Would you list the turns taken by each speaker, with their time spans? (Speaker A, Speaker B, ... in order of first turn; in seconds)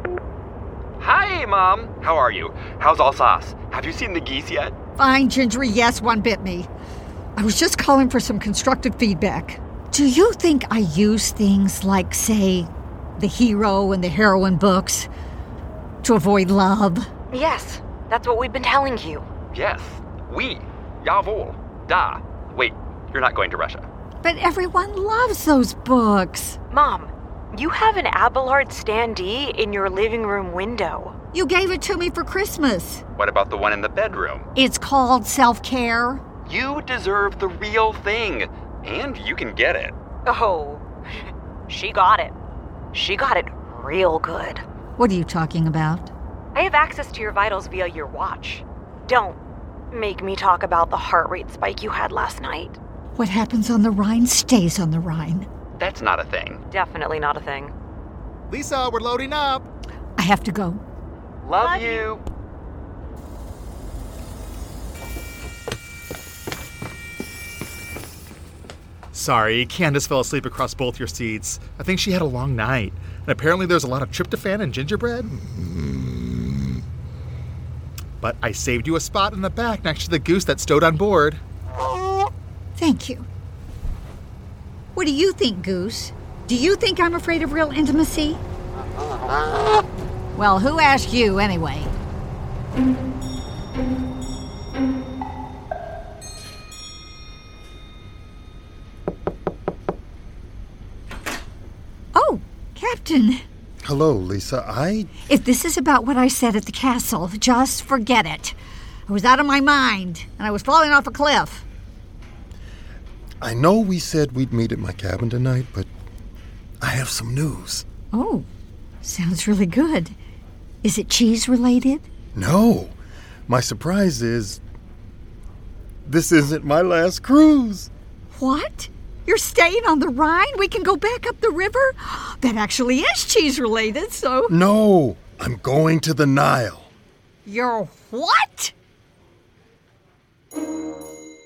Speaker A: 1.0-4.7, 19.5-23.9, 33.2-34.5, 36.5-39.9, 55.8-56.6, 61.4-62.2
Speaker B: 5.0-6.7, 7.4-15.1, 16.0-17.1, 24.2-26.6, 31.3-33.0, 34.6-36.2, 45.0-46.1, 53.2-55.5, 60.2-60.8, 82.8-83.2, 84.9-88.4, 90.3-91.9, 102.1-103.4, 105.2-108.5, 109.1-111.6, 118.1-118.5, 119.0-120.1, 120.8-122.0, 128.3-134.5, 137.4-138.7
Speaker C: 17.3-19.2, 26.7-31.1, 40.2-40.8, 41.7-42.3, 42.9-44.6, 46.5-49.4, 49.9-52.8, 56.7-57.7
Speaker D: 58.5-59.6, 69.1-75.3, 78.2-81.4
Speaker E: 103.8-105.1, 113.4-115.9, 116.8-117.8, 122.3-122.9, 123.5-124.6, 126.0-127.9, 134.5-136.9